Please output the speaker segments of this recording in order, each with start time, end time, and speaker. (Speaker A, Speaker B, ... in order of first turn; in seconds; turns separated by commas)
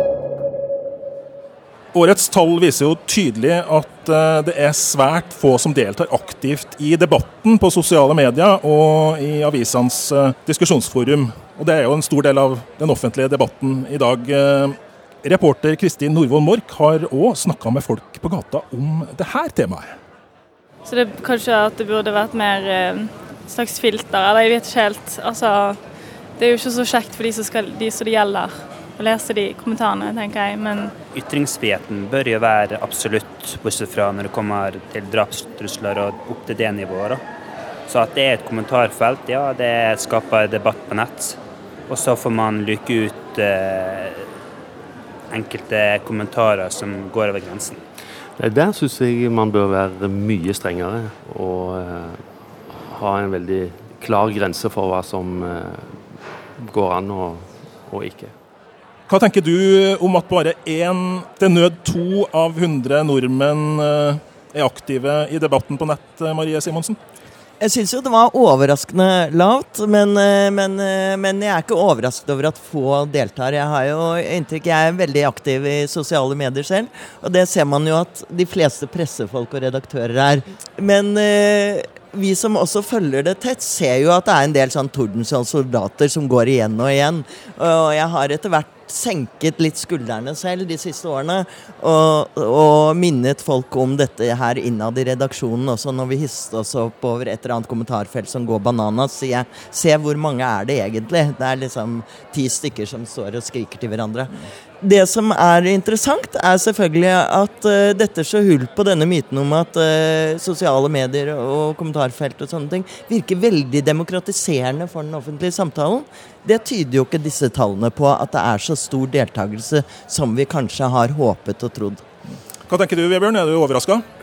Speaker A: 1.9-19.9, Speaker B: 20.9-25.8, Speaker B: 26.4-30.9, Speaker C: 31.1-37.2, Speaker C: 37.9-41.4, Speaker C: 41.9-44.3, Speaker C: 45.3-47.8, Speaker D: 48.4-58.3, Speaker A: 59.1-67.0, Speaker E: 67.6-122.0, Speaker A: 122.7-124.0